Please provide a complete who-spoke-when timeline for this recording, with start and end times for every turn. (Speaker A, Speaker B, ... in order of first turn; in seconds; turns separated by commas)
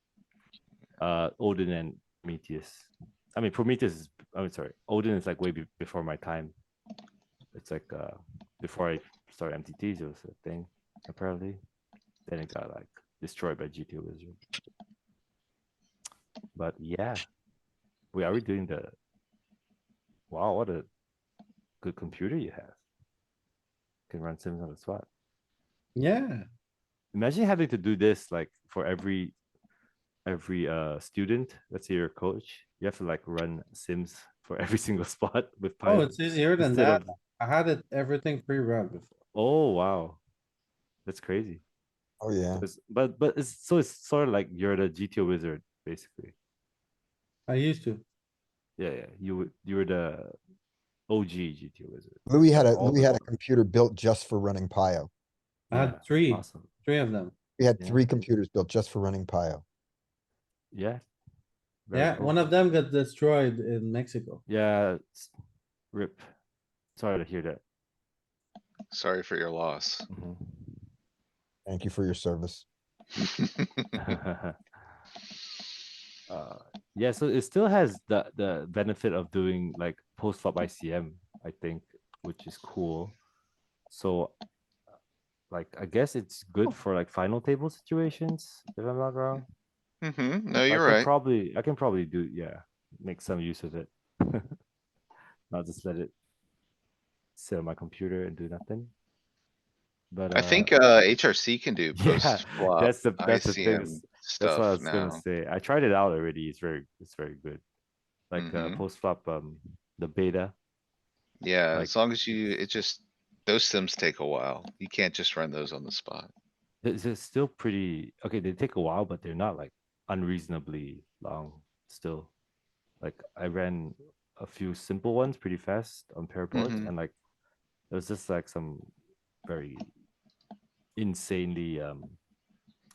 Speaker A: 1.0-6.5, Speaker A: 7.5-11.6, Speaker A: 12.2-14.4, Speaker A: 16.5-17.2, Speaker A: 18.1-18.9, Speaker A: 20.3-20.9, Speaker A: 21.8-22.8, Speaker A: 24.1-25.1, Speaker B: 25.9-26.4, Speaker A: 27.1-29.3, Speaker A: 30.2-37.1, Speaker B: 35.8-39.1, Speaker A: 39.3-40.2, Speaker A: 41.0-41.6, Speaker C: 42.2-42.6, Speaker A: 42.6-46.3, Speaker B: 47.5-48.0, Speaker A: 48.8-50.3, Speaker A: 51.1-53.3, Speaker C: 52.3-55.1, Speaker A: 55.7-56.7, Speaker B: 55.7-57.4, Speaker C: 57.6-59.6, Speaker A: 57.8-58.0, Speaker A: 60.7-61.0, Speaker A: 61.9-62.5, Speaker B: 61.9-64.4, Speaker A: 64.5-65.3, Speaker A: 65.9-66.3, Speaker A: 67.0-67.6, Speaker D: 68.9-70.0, Speaker A: 70.1-70.8, Speaker C: 71.7-72.6, Speaker D: 73.2-73.8, Speaker A: 73.9-74.6, Speaker A: 76.3-83.1, Speaker A: 83.9-84.3, Speaker A: 85.5-89.4, Speaker D: 90.0-91.1, Speaker A: 90.7-94.5, Speaker A: 95.5-96.1, Speaker A: 97.4-98.9, Speaker A: 100.1-100.7, Speaker D: 100.3-105.2, Speaker A: 102.0-107.6, Speaker A: 108.3-110.5, Speaker D: 108.3-108.8, Speaker D: 111.4-116.3, Speaker A: 111.7-112.5, Speaker A: 116.8-122.3, Speaker A: 123.0-127.1, Speaker D: 126.5-126.9, Speaker A: 127.9-128.9, Speaker A: 129.4-129.9, Speaker A: 131.0-132.2